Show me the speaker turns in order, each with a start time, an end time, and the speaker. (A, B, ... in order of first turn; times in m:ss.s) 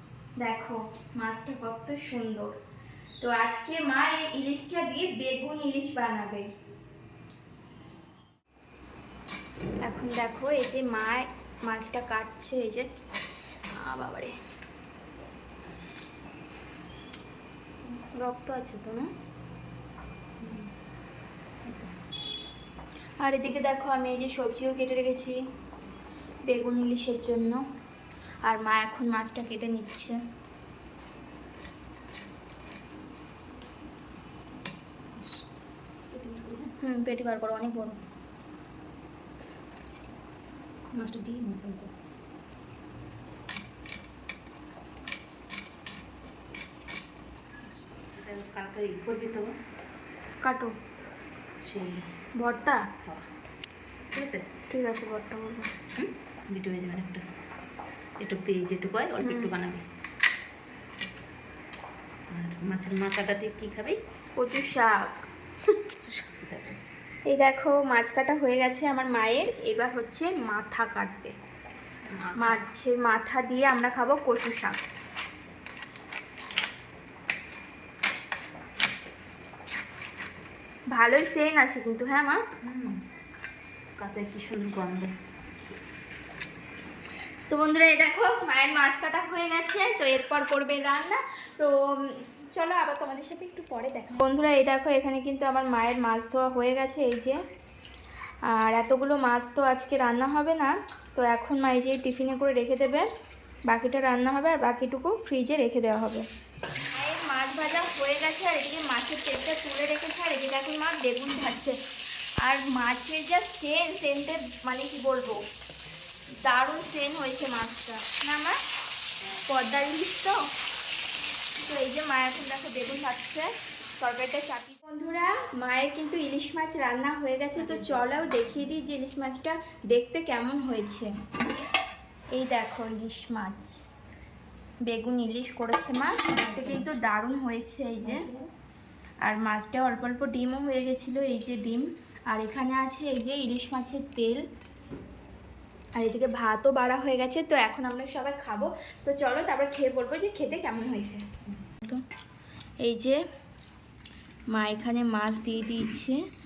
0:00.4-0:02.5 A
0:03.2-0:06.5 A
0:09.8-0:12.9 A
0:13.7-0:14.3 A
0:17.9-0:19.1 A
0:20.4-0:20.7 B
0:21.6-0:21.9 B
0:23.2-0:25.4 A
0:26.5-0:27.6 A
0:28.4-0:30.2 A
0:35.2-0:35.4 B
0:36.1-0:36.7 B
0:36.8-0:38.0 A
0:40.9-0:41.9 B
0:47.6-0:49.5 B
0:50.4-0:50.8 A
0:51.6-0:52.0 B
0:52.4-0:52.9 A
0:54.1-0:54.5 B
0:54.7-0:55.7 A
0:56.0-0:57.2 B
0:58.2-0:59.8 B
0:59.2-0:59.5 A
1:02.3-1:04.0 B
1:04.4-1:05.3 A
1:06.0-1:06.8 B
1:07.3-1:11.3 A
1:12.1-1:12.6 B
1:12.4-1:14.9 A
1:20.9-1:22.4 A
1:22.6-1:23.0 B
1:24.0-1:25.8 B
1:27.5-1:37.4 A
1:38.5-1:43.1 A
1:43.7-1:46.2 A
1:46.9-1:51.8 A
1:52.4-1:55.4 A
1:56.4-1:58.6 A
1:59.5-2:00.5 A
2:01.6-2:11.1 A
2:07.6-2:08.6 B
2:12.3-2:13.8 A
2:14.8-2:18.3 A
2:16.3-2:16.9 B
2:18.0-2:18.5 B
2:19.2-2:24.4 A
2:26.0-2:31.2 A
2:32.8-2:33.2 A
2:34.5-2:36.2 A